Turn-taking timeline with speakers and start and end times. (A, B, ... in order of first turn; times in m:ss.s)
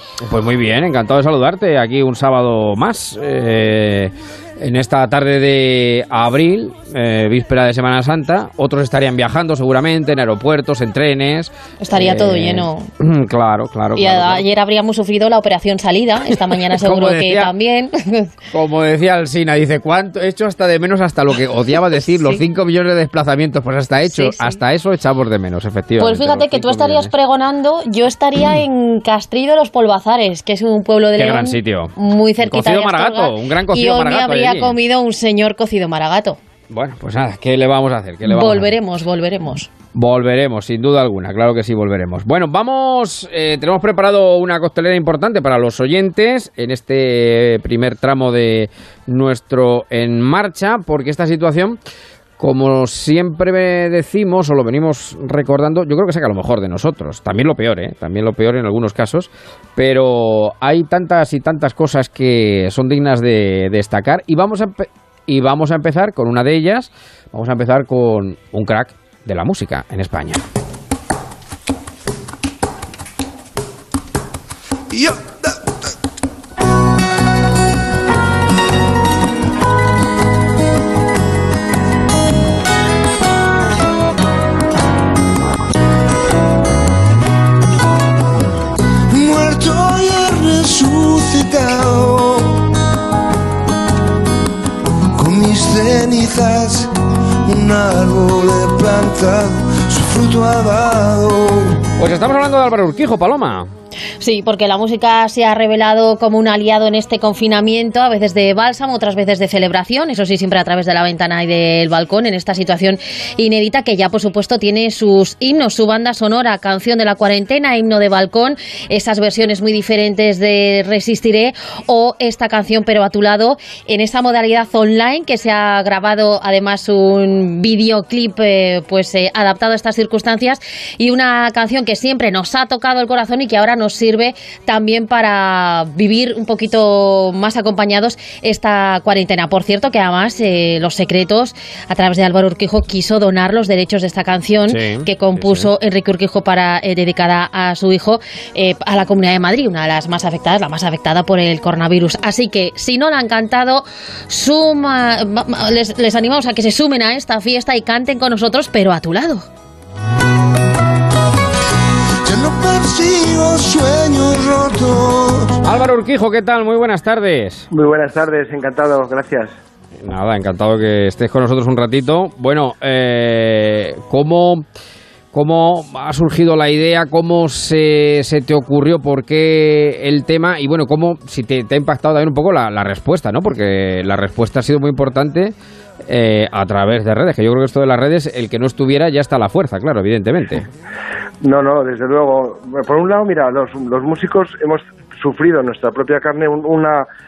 0:00.2-0:14.4 A
0:11.8-0:12.9 B
0:14.0-0:18.3 B
0:16.6-0:17.5 A
0:18.5-0:27.1 A
0:24.1-0:24.6 B
0:26.0-0:36.4 B
0:31.2-0:31.9 A
0:32.4-0:34.8 A
0:36.7-0:38.7 A
0:38.2-0:39.7 B
0:39.9-0:51.8 A
0:52.4-1:10.4 A
1:14.9-1:15.6 C
1:29.1-1:32.7 C
1:35.2-1:36.9 C
1:37.4-1:41.8 C
1:42.0-1:43.7 A
1:44.2-2:39.5 B
2:24.7-2:25.7 A
2:42.2-2:45.6 C
2:45.6-2:47.7 A
2:47.7-2:49.6 D
2:50.0-2:54.6 A
2:55.3-3:05.5 A
3:06.1-3:10.7 A
3:11.4-3:17.1 D